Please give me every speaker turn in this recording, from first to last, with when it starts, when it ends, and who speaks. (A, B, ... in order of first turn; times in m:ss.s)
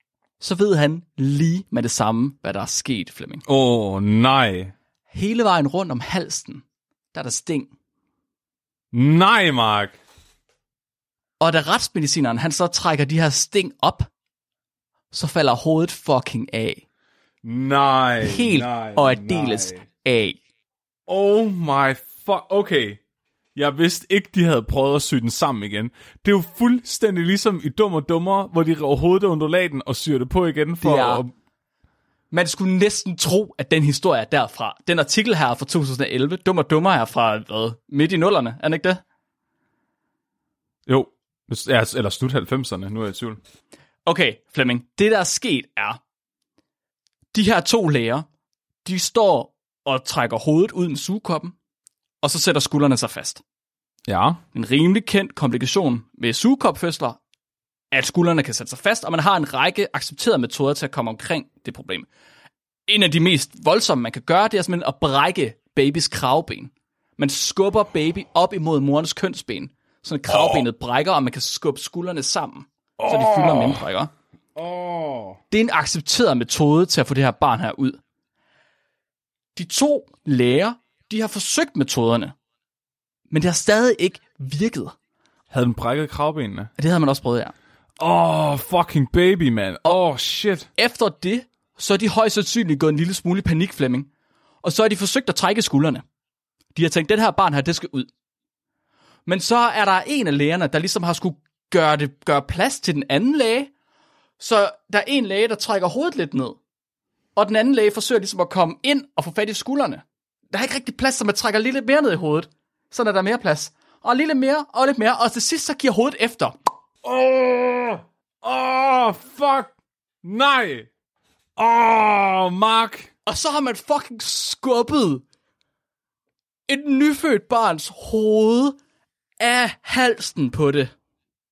0:00.4-0:03.4 A
0:03.5-0:04.7 B
0:05.1-0:07.7 A
0:08.9-0:10.0 B
0:11.4-0:14.1 A
0:15.1-0:16.8 A
0:17.4-0:19.8 B
0:18.2-0:20.4 A
0:21.1-0:23.0 B
0:23.6-0:31.3 B
0:30.8-0:31.2 A
0:32.3-0:39.0 A
0:40.9-0:43.4 B
0:44.1-0:46.0 A
0:47.3-0:48.3 A
0:48.8-0:51.6 A
0:52.2-0:53.4 A
0:54.1-0:54.4 B
0:54.5-0:57.2 A
0:57.9-1:02.1 A
1:02.9-1:14.1 A
1:10.3-1:10.6 B
1:13.0-1:13.8 B
1:14.6-1:15.4 B
1:15.5-1:18.0 A
1:19.6-1:22.3 A
1:23.3-1:24.9 A
1:25.5-1:26.7 B
1:26.8-1:27.5 A
1:28.0-1:30.7 B
1:30.8-1:34.1 A
1:34.6-1:36.0 A
1:36.8-1:38.1 A
1:39.3-1:43.7 A
1:44.4-1:46.6 A
1:47.4-1:56.6 A
1:57.0-1:59.7 B
2:00.2-2:00.9 B
2:01.6-2:03.1 B
2:03.3-2:05.2 A
2:06.7-2:08.8 A
2:09.4-2:10.9 A